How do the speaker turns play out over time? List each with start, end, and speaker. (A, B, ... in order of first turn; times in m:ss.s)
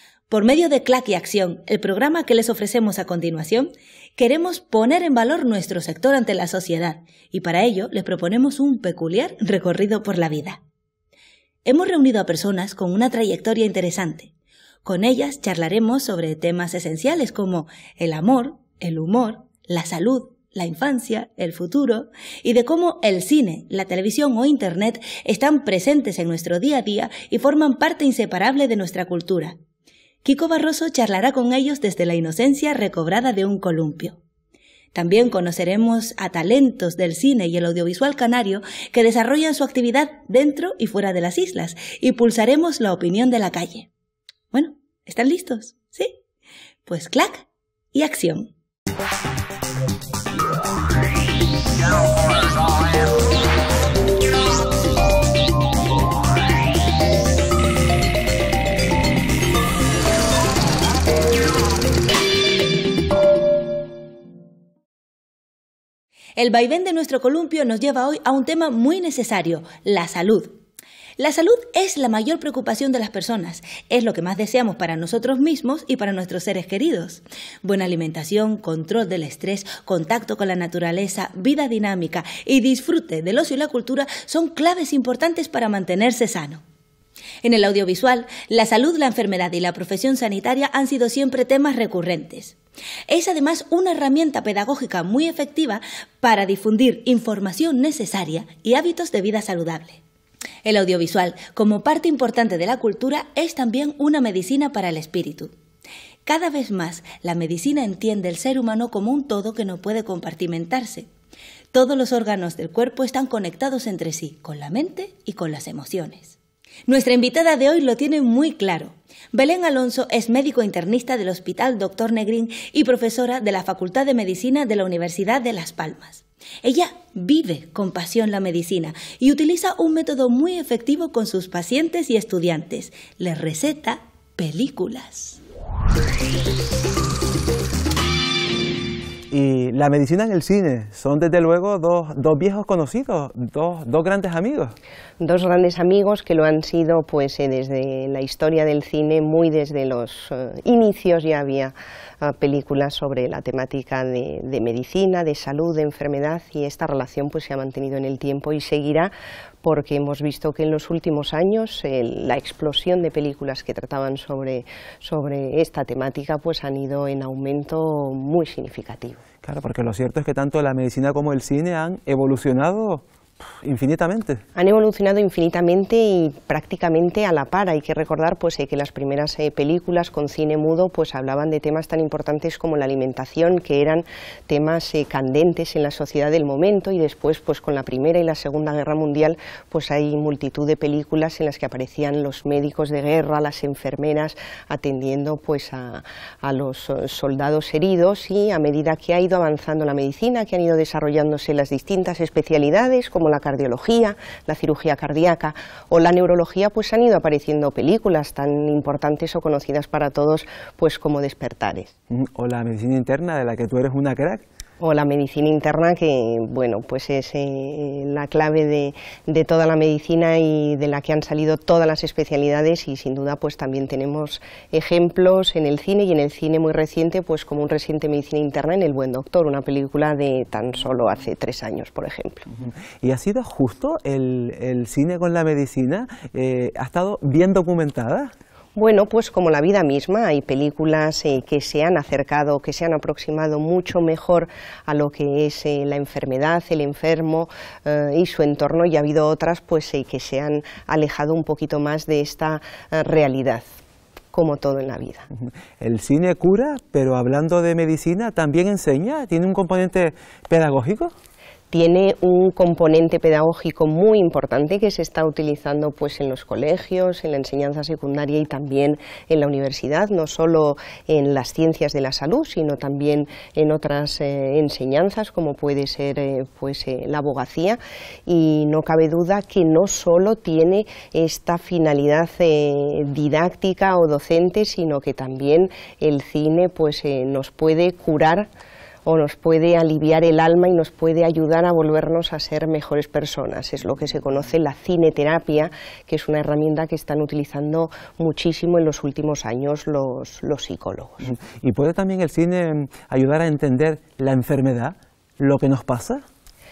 0:00.3-0:10.6 A
0:11.6-0:14.3 A
0:14.8-0:29.6 A
0:30.2-0:34.2 A
0:34.9-0:43.9 A
0:44.5-0:46.1 A
0:46.9-0:48.5 A
1:06.4-1:10.6 A
1:11.2-1:26.6 A
1:27.4-1:32.6 A
1:33.1-1:40.0 A
1:40.6-1:45.5 A
1:46.2-1:51.1 A
1:51.7-1:56.4 A
1:56.9-2:15.4 A
2:19.3-2:24.7 B
2:25.2-2:39.1 C
2:39.6-2:49.2 C
2:49.4-2:53.0 B
2:53.6-2:54.4 B
2:54.5-3:31.9 C
3:32.1-3:34.4 B
3:34.8-3:52.5 C
3:52.6-3:58.3 B
3:58.8-4:13.6 C
4:14.3-4:15.3 C
4:15.8-4:21.1 B
4:21.7-4:48.5 C
4:49.0-5:01.2 C
5:01.2-5:06.2 B